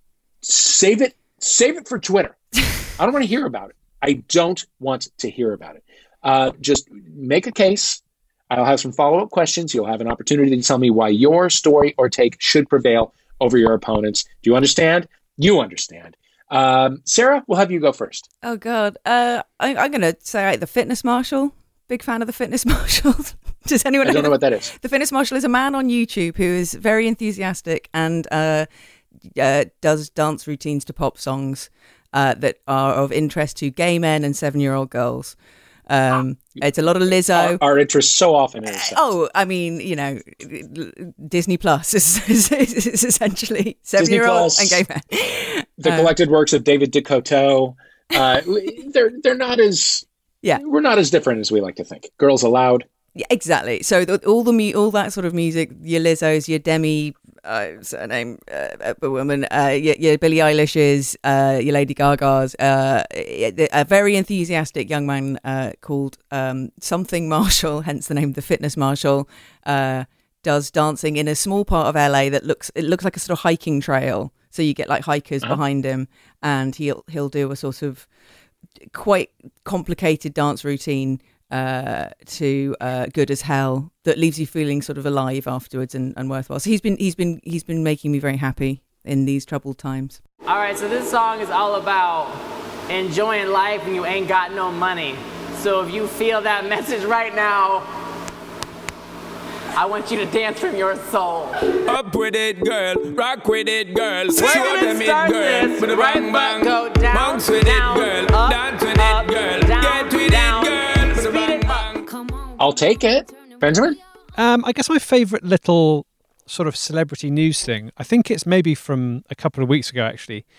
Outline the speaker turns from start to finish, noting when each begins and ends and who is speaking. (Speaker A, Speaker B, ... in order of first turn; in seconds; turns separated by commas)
Speaker A: 0.4-2.4, Speaker A: 3.0-18.2, Speaker B: 18.4-28.7, Speaker A: 24.0-24.7, Speaker B: 29.3-35.4, Speaker B: 35.9-37.6, Speaker A: 37.3-39.0, Speaker B: 38.8-46.1, Speaker A: 44.0-44.8, Speaker A: 45.8-52.9, Speaker B: 53.1-78.1, Speaker B: 78.9-90.2, Speaker C: 90.5-97.9, Speaker C: 99.7-101.7, Speaker D: 101.9-112.1, Speaker C: 104.3-111.9, Speaker A: 112.6-114.0, Speaker E: 114.3-120.4